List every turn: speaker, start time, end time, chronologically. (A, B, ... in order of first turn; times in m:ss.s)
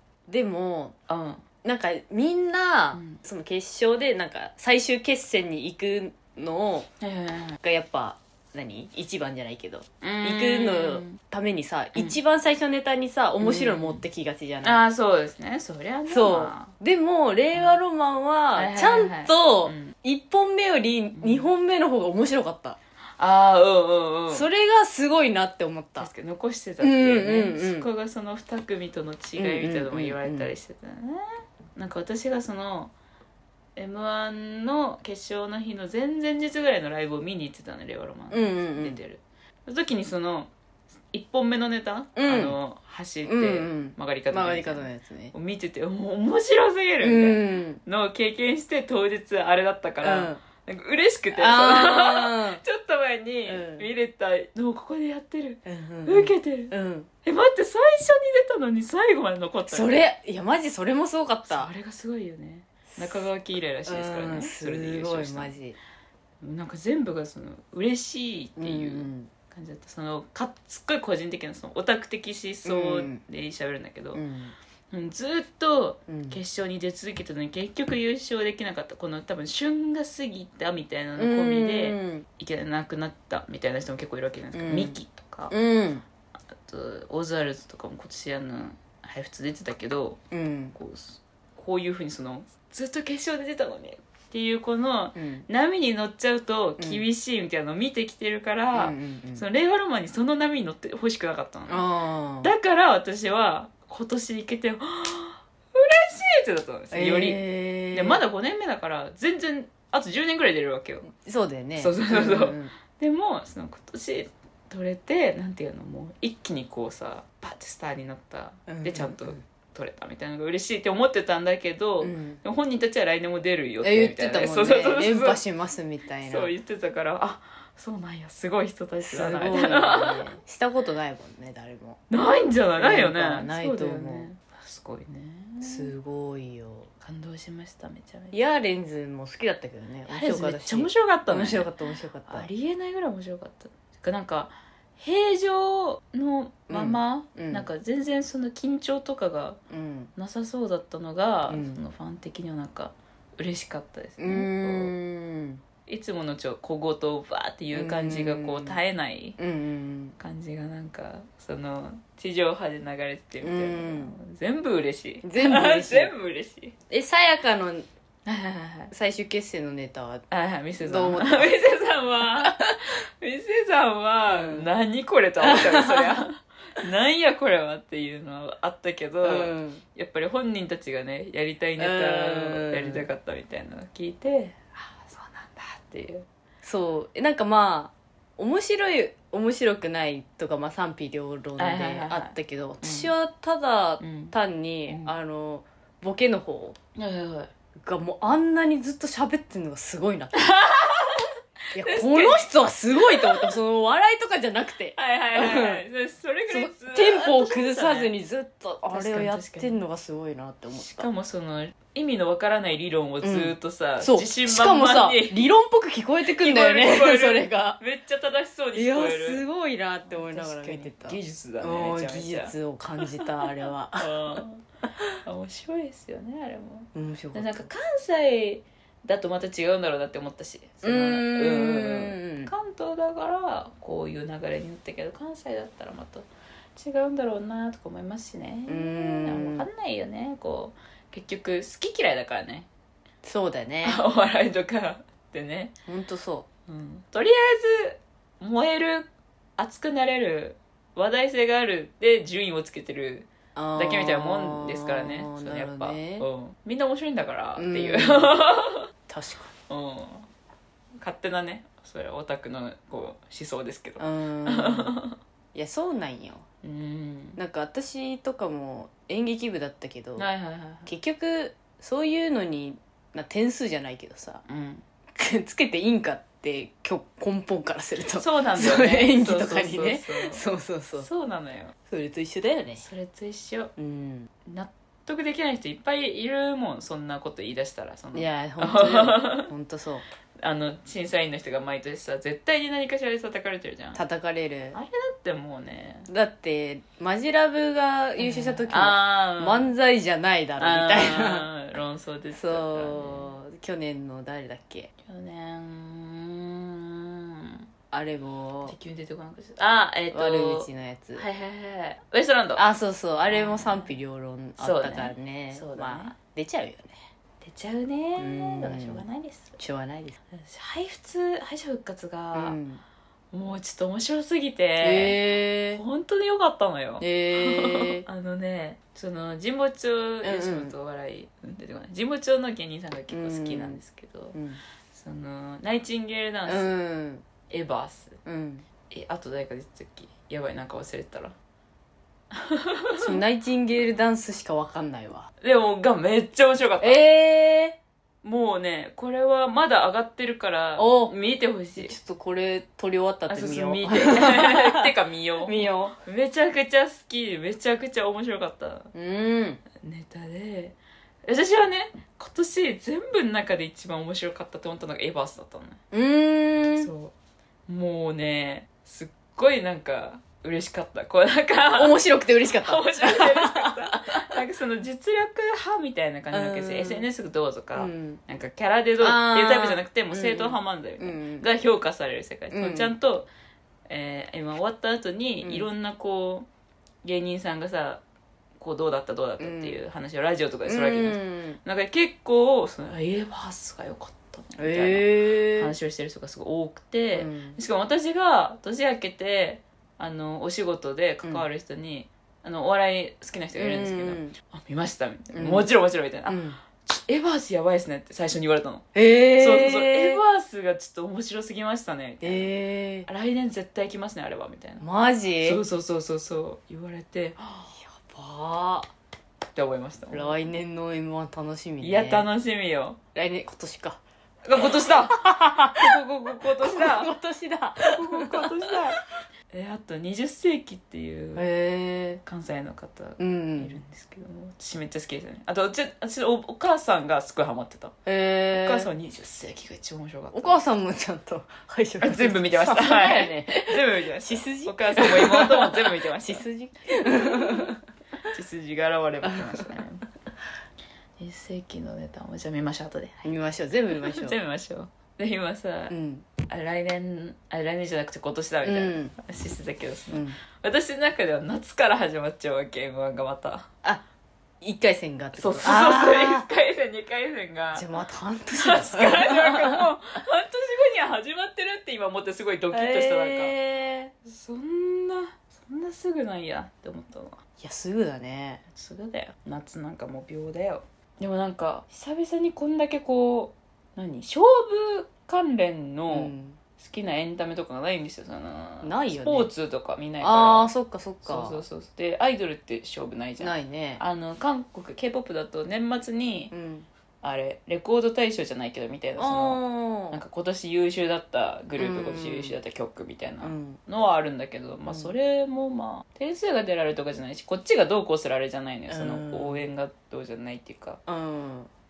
0:00.3-0:00.9 A
0:01.1-0:01.4 B
0:01.6-0:06.9 A
0:02.9-0:03.2 B
0:07.0-0:07.6 B
0:07.6-0:14.8 A
0:10.0-0:11.2 B
0:13.4-0:14.0 B
0:14.6-0:16.7 B
0:16.1-0:22.8 A
0:18.6-0:19.9 B
0:21.1-0:21.5 B
0:23.2-0:24.5 B
0:24.3-0:26.1 A
0:26.0-0:32.9 B
0:26.8-0:27.9 A
0:29.4-0:30.5 A
0:33.8-0:40.5 B
0:38.3-0:39.0 A
0:41.1-0:56.7 B
0:42.2-0:42.6 A
0:43.2-0:45.3 A
0:47.0-0:47.8 A
0:50.0-0:50.4 A
0:51.3-0:52.6 A
0:53.5-0:53.8 A
0:55.6-0:57.1 A
0:57.2-1:00.1 B
0:59.7-1:01.7 A
1:01.4-1:05.5 B
1:02.9-1:03.3 A
1:03.8-1:05.8 A
1:06.4-1:14.2 B
1:08.6-1:09.3 A
1:12.6-1:13.2 A
1:14.1-1:14.5 A
1:14.9-1:25.5 B
1:16.1-1:16.4 A
1:21.2-1:22.2 A
1:24.5-1:25.0 A
1:25.5-1:26.0 A
1:26.6-1:30.2 B
1:30.3-1:30.8 A
1:30.7-1:41.9 B
1:35.2-1:35.4 A
1:38.7-1:39.4 A
1:41.7-1:42.5 A
1:42.4-1:47.4 B
1:46.9-1:48.2 A
1:47.9-1:51.1 B
1:51.1-1:52.7 A
1:51.8-2:05.4 B
1:58.7-1:59.4 A
2:02.0-2:02.4 A
2:03.8-2:06.5 A
2:06.2-2:10.3 B
2:09.0-2:12.0 A
2:12.1-2:15.9 B
2:12.8-2:14.3 A
2:15.6-2:16.9 A
2:17.0-2:18.4 B
2:18.3-2:22.5 A
2:20.1-2:21.7 B
2:22.3-2:29.6 B
2:26.7-2:27.7 A
2:29.7-2:30.1 A
2:30.2-2:34.9 B
2:31.5-2:31.8 A
2:34.2-2:35.6 A
2:35.9-2:39.4 B
2:37.7-2:38.8 A
2:39.4-2:40.1 A
2:40.2-2:46.7 B
2:43.4-2:44.1 A
2:45.2-2:46.1 A
2:46.9-2:47.9 A
2:48.2-2:48.9 B
2:48.9-2:50.2 A
2:50.3-3:06.2 B
2:50.8-2:51.5 A
2:52.4-2:52.7 A
2:54.3-2:54.6 A
2:55.4-2:56.2 A
2:59.2-2:59.8 A
3:01.8-3:03.0 A
3:06.6-3:16.8 A
3:11.6-3:13.1 B
3:14.0-3:14.3 B
3:14.9-3:15.1 B
3:17.0-3:17.5 B
3:17.8-3:20.5 A
3:20.4-3:23.5 B
3:21.7-3:25.8 A
3:24.9-3:28.1 B
3:26.5-3:31.1 A
3:28.9-3:29.7 B
3:30.7-3:35.5 B
3:33.2-3:37.8 A
3:36.3-3:39.4 B
3:38.7-3:44.4 A
3:40.1-3:44.6 B
3:45.2-4:02.7 B
3:46.9-3:47.7 A
3:50.8-3:52.5 A
3:58.7-3:59.7 A
4:03.2-4:04.0 A
4:03.8-4:05.7 B
4:05.9-4:06.5 A
4:06.7-4:18.9 B
4:13.6-4:16.2 A
4:17.6-4:18.4 A
4:19.1-4:19.5 A
4:19.7-4:20.3 B
4:21.0-4:25.2 B
4:24.0-4:24.9 A
4:25.5-4:26.4 A
4:26.6-4:27.4 B
4:27.4-4:30.3 A
4:30.2-4:30.9 B
4:30.8-4:34.4 A
4:34.5-4:34.8 B
4:35.1-4:41.1 A
4:38.1-4:40.4 B
4:41.0-4:41.7 B
4:41.9-4:42.8 A
4:42.8-4:43.7 B
4:43.8-4:44.3 A
4:44.4-4:49.5 B
4:48.1-4:50.0 A
4:50.4-4:54.0 B
4:53.9-4:54.8 A
4:54.7-4:56.1 B
4:56.1-5:01.5 A
4:58.2-4:59.7 B
5:00.6-5:03.3 B
5:02.3-5:04.9 A
5:05.0-5:07.6 B
5:07.9-5:08.7 A
5:08.6-5:12.6 B
5:10.1-5:11.2 A
5:12.6-5:17.0 A
5:13.3-5:13.9 B
5:14.6-5:16.1 B
5:17.4-5:19.6 B
5:18.2-5:19.0 A
5:19.6-5:20.2 A
5:20.3-5:22.6 B
5:22.3-5:22.8 A
5:23.3-5:25.2 B
5:24.8-5:25.8 A
5:25.7-5:34.4 B
5:27.0-5:28.0 A
5:30.2-5:30.7 A
5:33.1-5:33.8 A
5:34.3-5:34.6 A
5:34.9-5:36.7 B
5:36.5-5:37.2 A
5:37.5-5:38.2 B
5:38.2-5:38.6 A
5:38.9-5:41.3 B
5:42.3-5:43.2 B
5:43.0-5:45.3 A
5:45.4-5:47.0 B
5:46.8-5:47.8 A
5:48.2-5:51.9 B
5:50.8-5:51.1 A
5:51.8-5:54.9 A
5:53.3-5:58.9 B
5:55.4-5:55.9 A
5:58.9-5:59.6 A
5:59.8-6:05.8 B
6:05.9-6:06.9 A
6:06.8-6:07.1 B
6:07.7-6:12.0 B
6:11.7-6:14.2 A
6:12.5-6:23.3 B
6:16.3-6:17.0 A
6:17.8-6:18.2 A
6:19.0-6:21.5 A
6:22.5-6:22.9 A
6:23.9-6:26.5 B
6:25.4-6:25.7 A
6:27.0-6:28.0 B
6:28.6-6:48.8 B
6:29.4-6:29.8 A
6:30.6-6:31.6 A
6:34.6-6:35.7 A
6:37.1-6:37.6 A
6:43.6-6:44.3 A
6:45.3-6:45.7 A
6:46.3-6:46.6 A
6:48.9-6:50.2 A
6:49.4-6:52.5 B
6:52.2-6:53.1 A
6:53.1-6:54.8 B
6:54.8-6:55.6 A
6:55.4-6:57.7 B
6:57.7-6:58.9 A
6:59.5-7:00.4 B
7:00.1-7:02.2 A
7:01.8-7:03.0 B
7:03.1-7:04.0 A
7:04.4-7:07.1 B
7:04.6-7:08.8 A
7:07.8-7:11.4 B
7:11.4-7:12.2 A
7:12.2-7:17.9 B
7:13.2-7:13.8 A
7:18.0-7:18.9 A
7:18.5-7:20.6 B
7:20.3-7:27.8 A
7:22.0-7:26.4 B
7:27.0-7:27.7 B
7:28.3-7:30.0 B
7:29.2-7:29.8 A
7:31.2-7:33.2 B
7:33.2-7:34.3 A
7:34.0-7:35.9 B
7:35.9-7:36.2 A
7:36.4-7:43.7 B
7:38.6-7:39.1 A
7:40.1-7:40.4 A
7:44.6-7:46.4 A
7:45.4-7:47.9 B
7:47.7-7:49.9 A
7:48.5-7:53.5 B
7:52.7-7:54.1 A
7:54.2-7:57.4 B
7:57.6-7:58.6 A
7:58.7-8:10.7 B
8:06.1-8:06.6 A
8:08.8-8:09.5 A
8:10.2-8:11.6 A
8:11.2-8:16.5 B
8:13.4-8:14.0 A
8:16.5-8:16.9 A
8:17.2-8:31.0 B
8:19.2-8:20.2 A
8:21.8-8:22.6 A
8:23.4-8:23.8 A
8:24.9-8:25.1 A
8:28.9-8:29.6 A
8:31.1-8:31.7 A